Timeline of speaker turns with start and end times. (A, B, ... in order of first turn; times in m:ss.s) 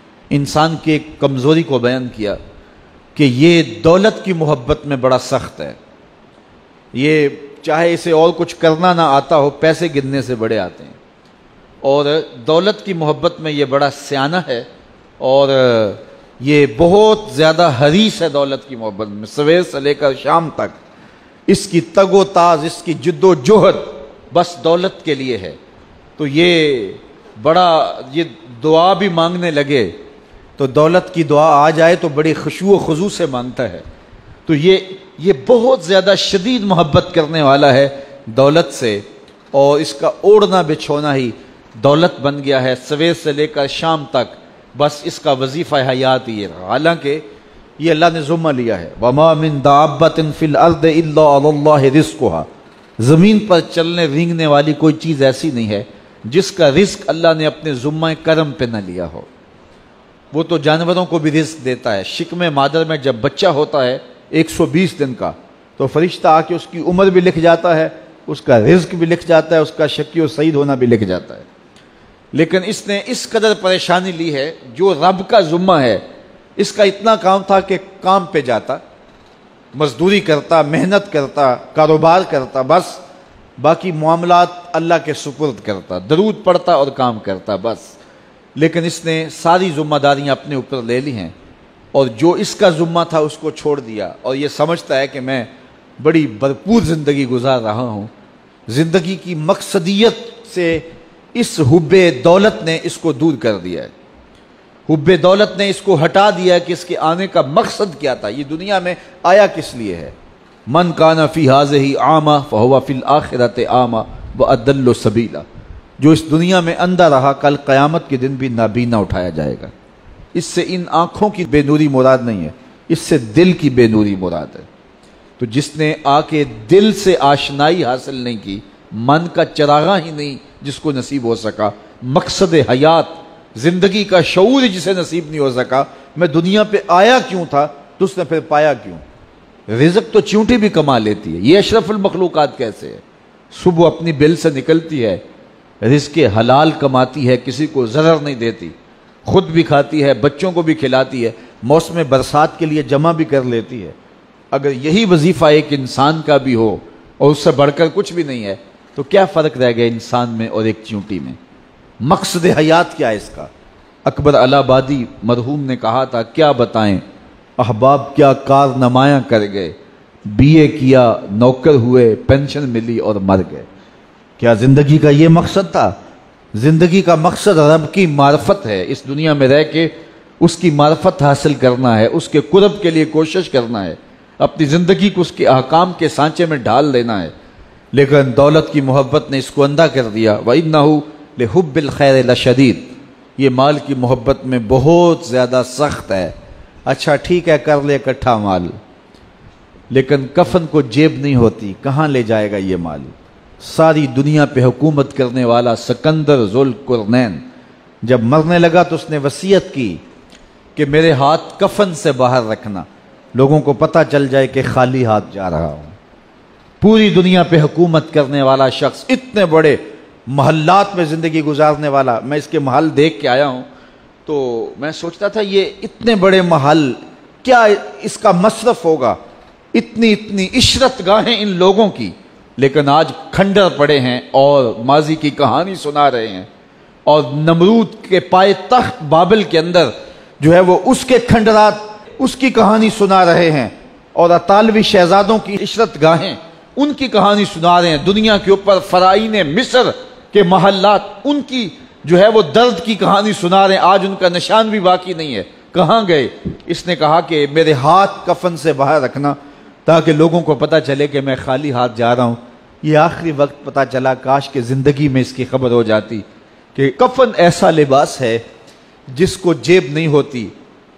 0:00.3-0:02.4 A
0:03.2-0:05.8 A
0:06.9-0:11.0 A
0:11.8-0:14.7 A
0:15.2-0:20.8 A
0:21.5-0:25.6 A
0:26.2-0:29.9 A
0:30.6-0:33.8 A
0:34.4-0:47.2 A
0:47.8-0:52.5 A
0:53.0-0:59.3 A
1:00.3-1:11.4 A
1:12.3-1:16.0 A
1:16.6-1:18.8 A
1:19.7-1:23.0 A
1:23.6-1:28.0 A
1:28.6-1:31.3 A
1:31.9-1:38.1 A
1:38.7-1:43.9 A
1:44.9-1:50.1 A
1:50.7-1:55.4 A
1:56.0-1:59.7 A
2:00.3-2:04.7 A
2:05.4-2:19.0 A
2:19.7-2:25.2 A
2:25.8-2:34.0 A
2:34.5-2:41.4 A
2:42.0-2:43.5 A
2:44.0-2:47.0 A
2:47.6-2:53.6 A
2:54.4-2:55.9 A
2:56.5-3:07.3 A
3:07.9-3:16.3 A
3:16.9-3:18.7 A
3:19.9-3:27.4 A
3:28.0-3:30.0 A
3:30.8-3:36.0 A
3:36.8-3:43.6 A
3:44.2-3:49.2 A
3:49.7-3:56.5 A
3:57.0-4:26.2 A
4:26.8-4:28.4 A
4:29.1-4:30.5 A